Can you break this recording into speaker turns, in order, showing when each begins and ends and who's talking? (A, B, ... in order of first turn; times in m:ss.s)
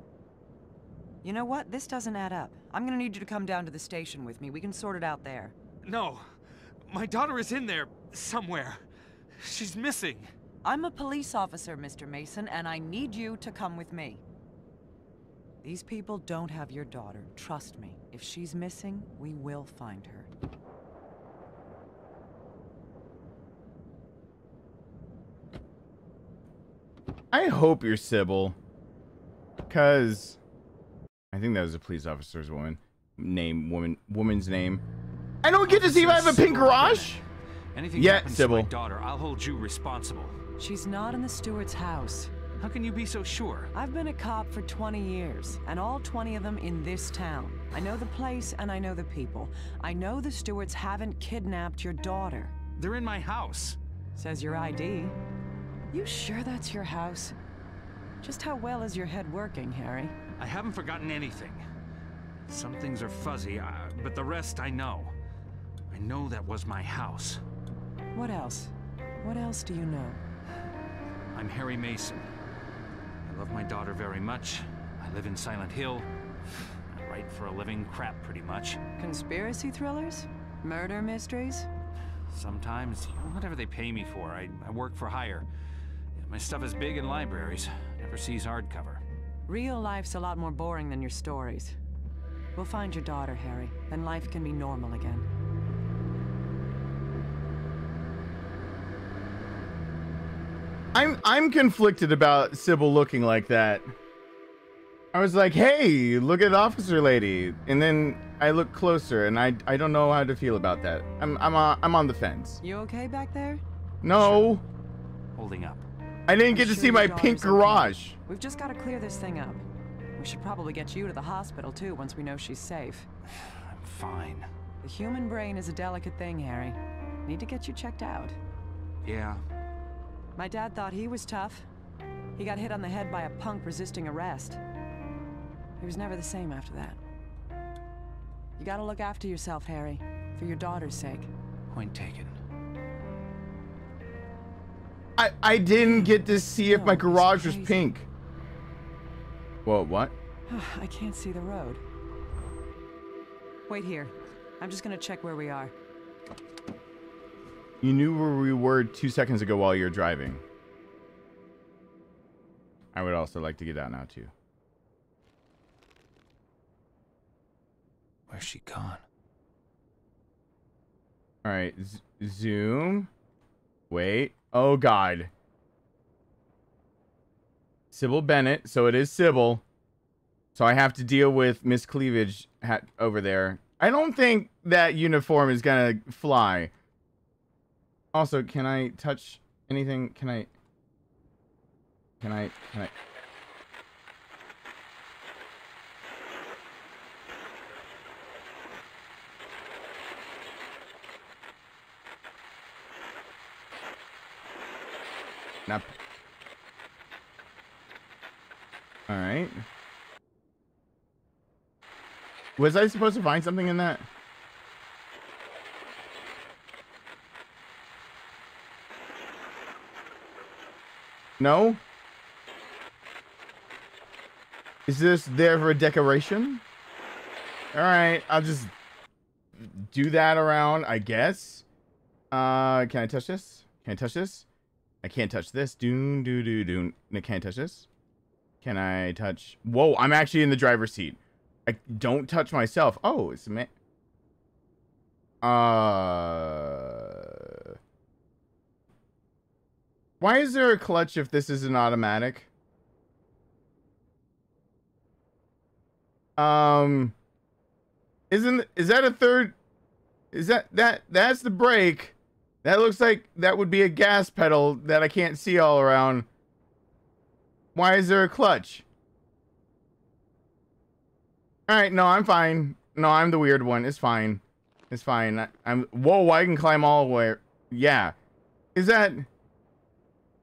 0:01.2-0:05.6 A
0:05.8-0:06.3 B
0:06.9-0:08.8 B
0:09.4-0:10.3 B
0:10.6-0:14.2 A
0:15.6-0:20.3 A
0:27.3-0:28.6 C
0:29.7-0:30.4 C
0:31.3-0:34.8 C
0:35.4-0:37.2 C
0:35.7-0:37.2 B
0:37.7-0:40.4 B
0:38.0-0:38.7 C
0:40.6-0:42.3 A
0:42.6-0:43.7 B
0:43.7-0:52.6 A
0:52.8-0:53.8 B
0:54.2-0:55.2 A
0:55.9-0:57.4 A
0:58.2-1:00.2 A
1:00.4-1:01.6 B
1:02.5-1:05.2 B
1:05.9-1:07.4 B
1:08.1-1:10.2 A
1:11.3-1:12.3 B
1:13.2-1:16.1 B
1:16.9-1:18.8 B
1:19.0-1:21.7 A
1:22.3-1:25.5 B
1:26.2-1:29.0 B
1:29.5-1:31.8 A
1:32.6-1:35.3 A
1:41.0-1:43.9 C
1:45.1-1:52.6 C
1:52.6-1:53.6 A
1:54.0-1:54.6 C
1:54.1-1:54.5 B
1:55.4-1:55.9 B
1:56.3-1:58.2 C
1:56.5-1:59.6 A
2:00.2-2:03.1 A
2:03.4-2:04.5 B
2:04.8-2:08.4 A
2:09.0-2:09.4 B
2:10.4-2:11.7 A
2:12.4-2:14.6 A
2:15.8-2:17.0 A
2:18.6-2:21.3 A
2:21.7-2:22.4 B
2:25.2-2:28.1 C
2:26.6-2:27.9 A
2:29.6-2:30.1 C
2:30.5-2:31.8 A
2:33.7-2:35.7 A
2:37.8-2:40.4 C
2:42.9-2:44.3 C
2:48.3-2:49.0 B
2:51.4-2:53.1 C
2:53.9-2:55.3 C
2:57.9-2:59.6 C
3:00.6-3:06.7 C
3:08.1-3:10.5 C
3:12.2-3:12.9 C
3:25.7-3:25.9 C
3:29.1-3:29.6 C
3:32.6-3:34.1 C
3:41.4-3:41.8 C
3:44.9-3:46.6 C
3:47.7-3:48.7 C
3:49.6-3:51.6 C
3:52.3-3:54.5 C
3:55.0-3:57.9 C
3:58.6-4:03.7 C
4:05.4-4:07.6 C
4:10.2-4:12.5 C
4:16.4-4:17.2 C
4:18.3-4:19.6 C
4:20.3-4:26.3 C
4:27.8-4:28.8 C
4:31.7-4:38.2 C
4:38.8-4:39.3 C